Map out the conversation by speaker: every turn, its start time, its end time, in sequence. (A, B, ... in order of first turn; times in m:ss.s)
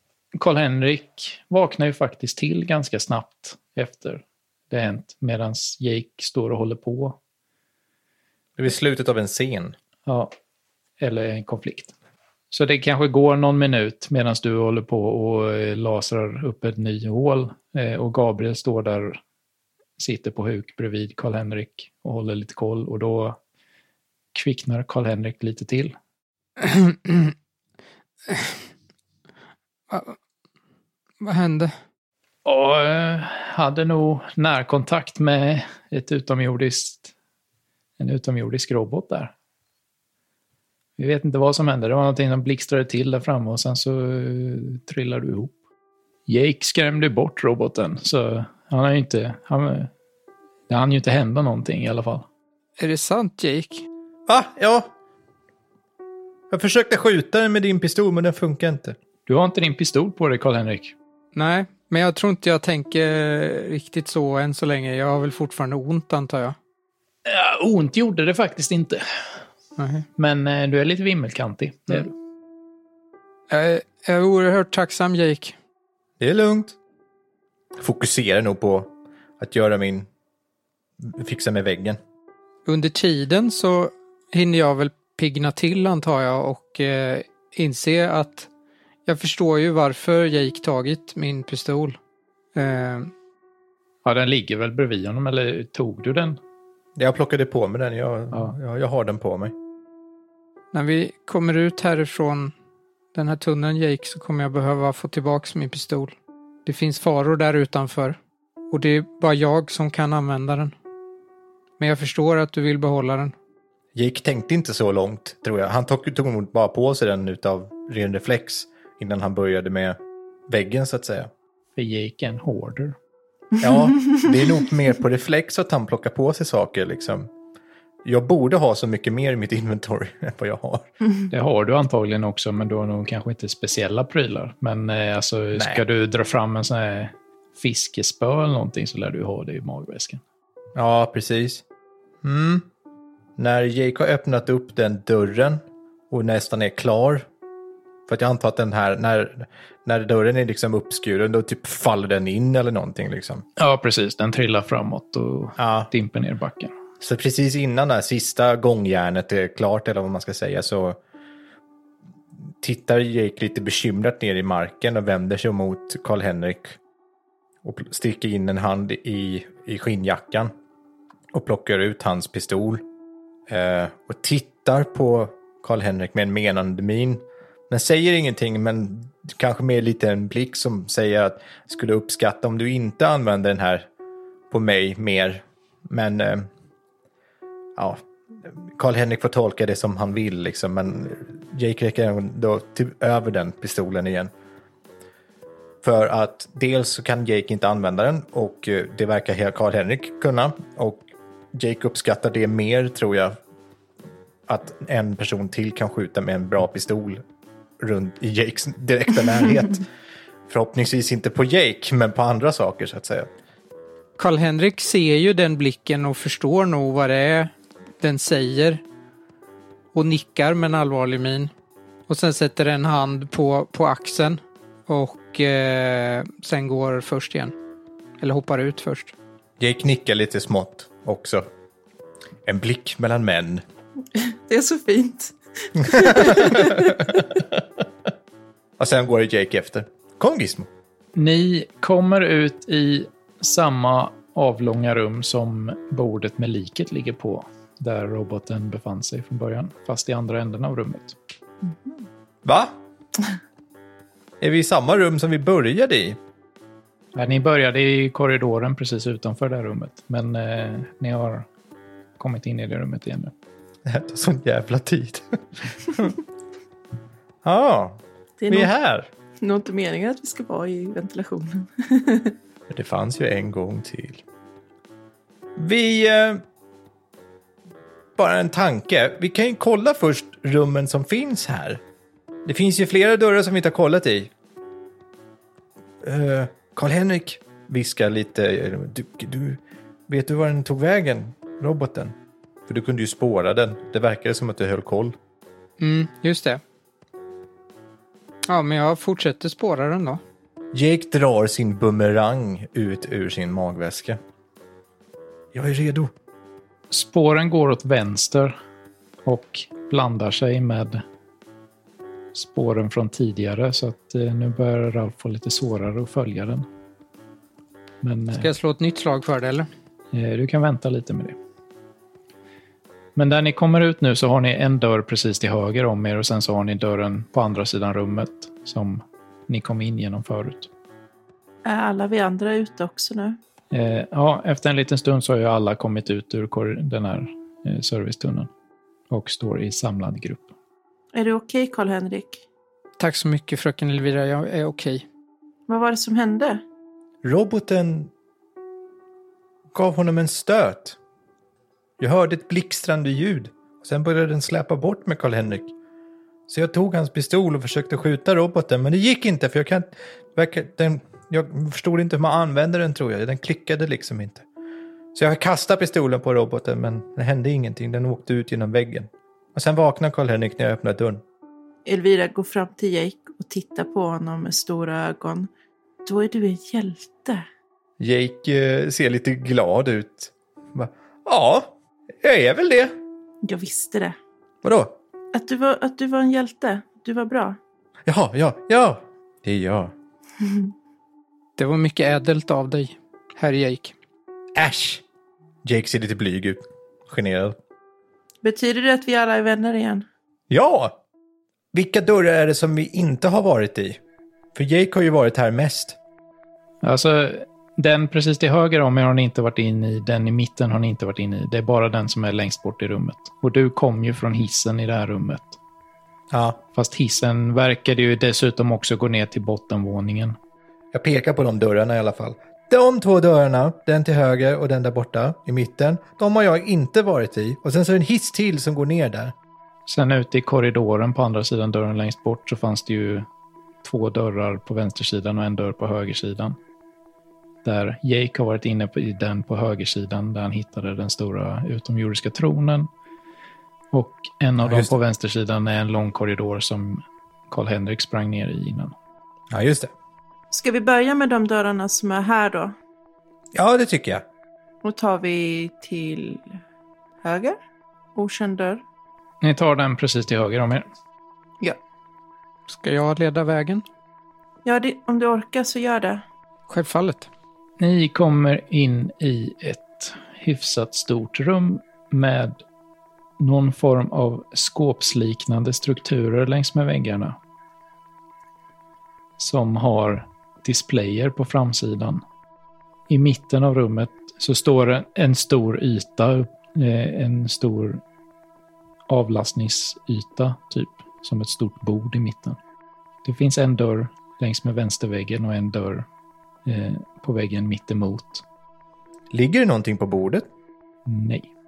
0:00.4-0:07.2 A
0:08.6-0:09.8 B
0:10.0-0:10.3 A
0:11.0-0:11.9 A
0:12.5-0:19.2 A
0:20.0-0:23.4 A
0:24.3-0:26.0 A
0:26.6-0:27.3 C
0:29.9-0:30.2 C
0:31.2-0:31.7 C
0:32.4-0:37.1 A
0:38.0-0:39.3 A
0:41.0-0:45.6 A
0:46.3-0:49.9 A
0:50.7-0:52.3 A
0:52.8-0:53.8 C
0:54.3-0:54.9 B
0:56.5-0:59.0 B
0:59.3-1:00.9 A
1:01.3-1:06.6 C
1:07.2-1:09.0 A
1:09.8-1:10.0 C
1:10.2-1:12.1 A
1:13.5-1:15.6 C
1:16.2-1:16.8 B
1:17.8-1:20.1 B
1:21.0-1:22.0 B
1:22.7-1:28.5 C
1:29.0-1:32.0 C
1:32.6-1:33.1 C
1:34.0-1:36.4 A
1:37.0-1:39.5 B
1:40.7-1:42.5 C
1:43.1-1:46.1 C
1:46.6-1:48.2 C
1:48.7-1:50.7 C
1:51.8-1:53.3 C
1:54.0-2:01.3 B
2:01.7-2:03.0 A
2:03.6-2:07.3 B
2:03.7-2:04.2 D
2:08.0-2:10.9 B
2:11.3-2:20.2 A
2:15.6-2:15.8 B
2:20.7-2:21.6 B
2:22.2-2:22.7 B
2:23.4-2:27.3 B
2:28.1-2:33.4 B
2:33.6-2:36.7 A
2:35.6-2:35.9 B
2:37.0-2:41.0 B
2:42.6-2:46.8 B
2:47.6-2:50.5 B
2:51.3-2:52.8 B
2:53.5-3:03.9 B
3:04.5-3:06.5 B
3:07.8-3:14.3 B
3:15.8-3:23.4 B
3:24.5-3:27.2 B
3:27.8-3:29.9 B
3:30.5-3:33.3 B
3:34.2-3:38.8 C
3:39.9-3:41.5 C
3:42.1-3:47.5 C
3:48.2-3:49.1 C
3:49.6-3:51.5 B
3:52.4-3:53.6 B
3:54.1-3:57.2 D
3:55.9-3:57.6 B
3:58.8-4:00.7 B
4:01.1-4:11.2 A
4:11.6-4:12.0 D
4:12.4-4:12.7 B
4:14.4-4:16.2 B
4:17.1-4:21.5 A
4:22.2-4:23.3 A
4:23.9-4:26.2 B
4:27.4-4:29.1 B
4:28.4-4:28.7 D
4:29.4-4:32.4 D
4:32.7-4:34.2 B
4:35.6-4:36.4 B
4:38.2-4:41.8 B
4:42.4-4:44.3 B
4:46.0-4:52.1 B
4:52.7-4:55.1 B
4:55.8-4:56.6 C
4:58.5-5:00.2 C
5:00.7-5:04.2 B
5:05.5-5:06.1 B
5:06.9-5:08.6 A
5:09.2-5:11.0 A
5:12.3-5:16.7 A
5:18.0-5:18.5 A
5:18.4-5:19.7 C
5:20.1-5:21.4 A
5:23.2-5:30.7 A
5:31.6-5:33.4 D
5:33.7-5:38.5 A
5:39.1-5:40.5 A
5:41.1-5:42.4 D
5:43.0-5:45.0 C
5:45.7-5:46.6 D
5:47.2-5:48.1 B
5:49.7-5:51.0 B
5:52.0-5:55.7 B
5:56.5-6:04.4 B
6:05.1-6:11.2 B
6:11.9-6:15.5 D
6:16.0-6:17.4 D
6:18.0-6:22.9 B
6:23.4-6:24.2 D
6:24.6-6:25.0 B
6:25.3-6:27.6 D
6:28.0-6:29.9 B
6:31.6-6:34.0 C
6:34.6-6:35.0 B
6:35.6-6:37.6 B
6:38.4-6:40.0 D
6:40.5-6:41.0 B
6:41.7-6:44.0 B
6:44.6-6:46.0 B
6:46.8-6:55.6 A
6:56.3-6:56.6 B
6:56.7-7:00.4 A
7:00.9-7:09.3 B
7:09.9-7:13.3 A
7:13.8-7:16.6 A
7:17.6-7:22.9 A
7:23.9-7:28.9 A
7:24.6-7:24.9 B
7:29.5-7:29.9 B
7:30.5-7:32.7 D
7:33.5-7:34.2 B
7:34.8-7:36.6 D
7:37.2-7:37.6 D
7:38.1-7:38.8 D
7:39.4-7:40.8 A
7:42.7-7:43.8 C
7:44.6-7:46.2 D
7:46.7-7:47.3 C
7:47.8-7:52.6 A
7:53.4-7:57.4 A
7:59.4-8:02.2 A
8:03.1-8:08.0 A
8:09.1-8:12.6 A
8:13.2-8:16.1 A
8:16.6-8:18.4 A
8:19.3-8:20.5 B
8:21.0-8:21.5 A